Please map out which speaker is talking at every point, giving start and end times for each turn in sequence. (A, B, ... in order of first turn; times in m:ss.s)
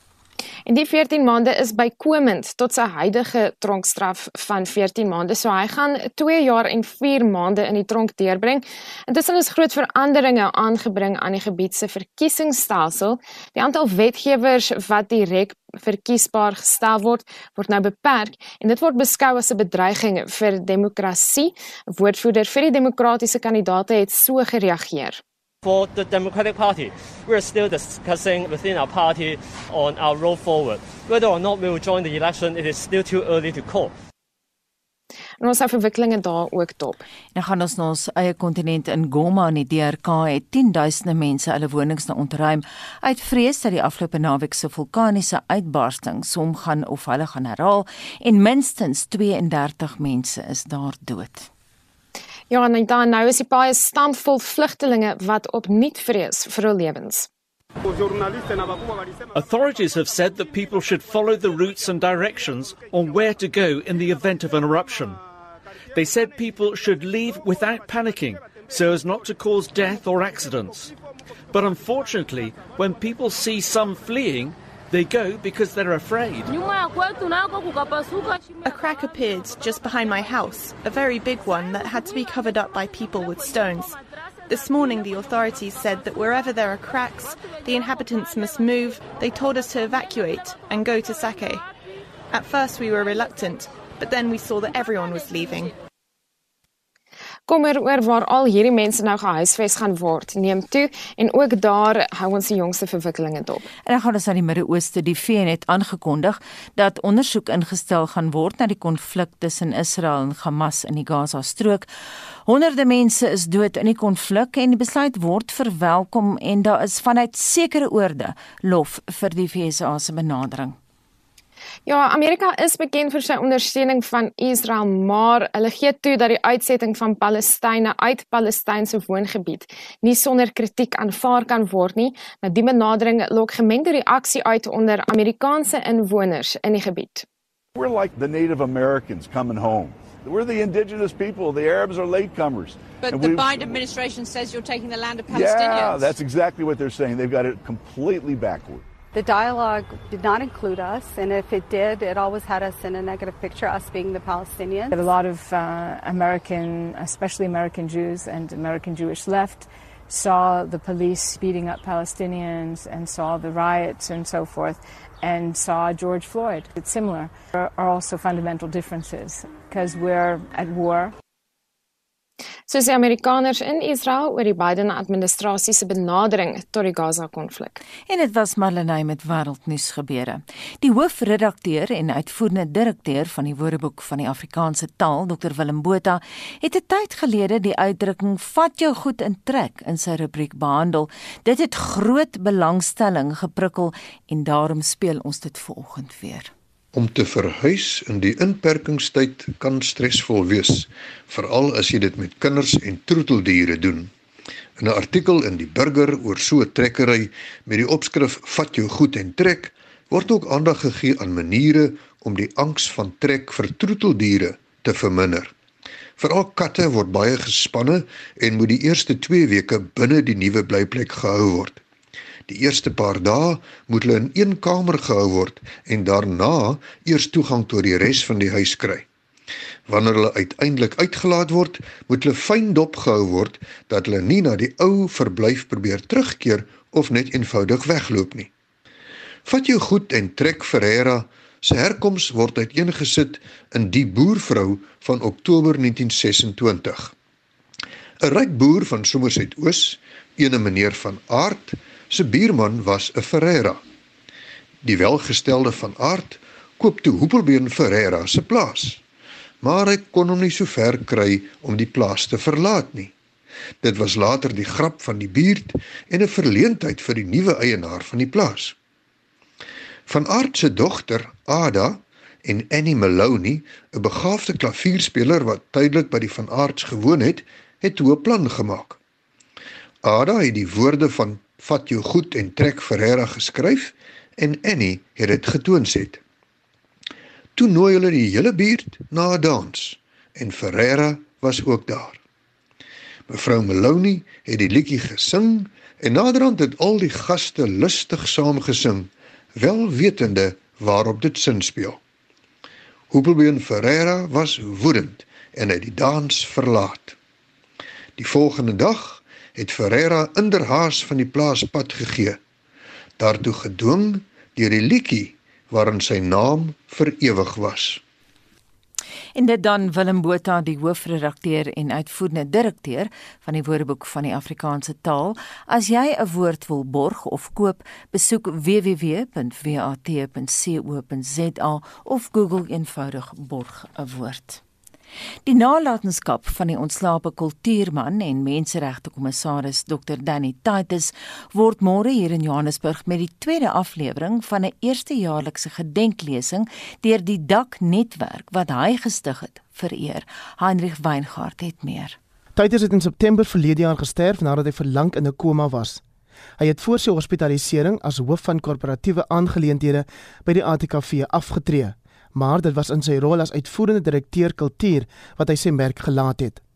0:00.7-0:25.2 A
0:25.6-0:33.9 B
0:35.4-0:37.0 A
0:37.4-0:51.5 C
0:52.5-0:57.3 A
0:59.3-1:05.2 D
1:05.9-1:10.9 D
1:11.5-1:16.5 D
1:18.6-1:31.7 E
1:32.3-1:35.7 E
1:37.5-1:43.6 A
1:43.9-1:51.9 C
1:52.5-2:00.8 C
2:01.9-2:17.2 A
2:17.8-2:23.9 F
2:23.0-2:26.1 G
2:25.3-2:28.8 F
2:29.1-2:35.0 H
2:34.9-2:51.1 I
2:52.7-2:57.8 A
2:58.1-3:16.5 C
3:16.9-3:24.1 J
3:24.8-3:35.5 J
3:36.2-3:41.8 J
3:42.5-3:49.1 J
3:49.9-3:58.5 J
3:59.5-4:07.1 J
4:08.2-4:13.8 J
4:14.8-4:19.0 J
4:19.6-4:23.1 J
4:23.8-4:28.8 J
4:30.1-4:39.0 J
4:40.0-4:46.2 J
4:47.6-4:52.2 J
4:53.3-5:02.0 J
5:03.1-5:07.2 J
5:08.2-5:12.4 J
5:13.2-5:18.0 J
5:19.4-5:34.6 C
5:35.4-5:52.2 C
5:52.6-5:56.0 K
5:56.6-6:06.6 K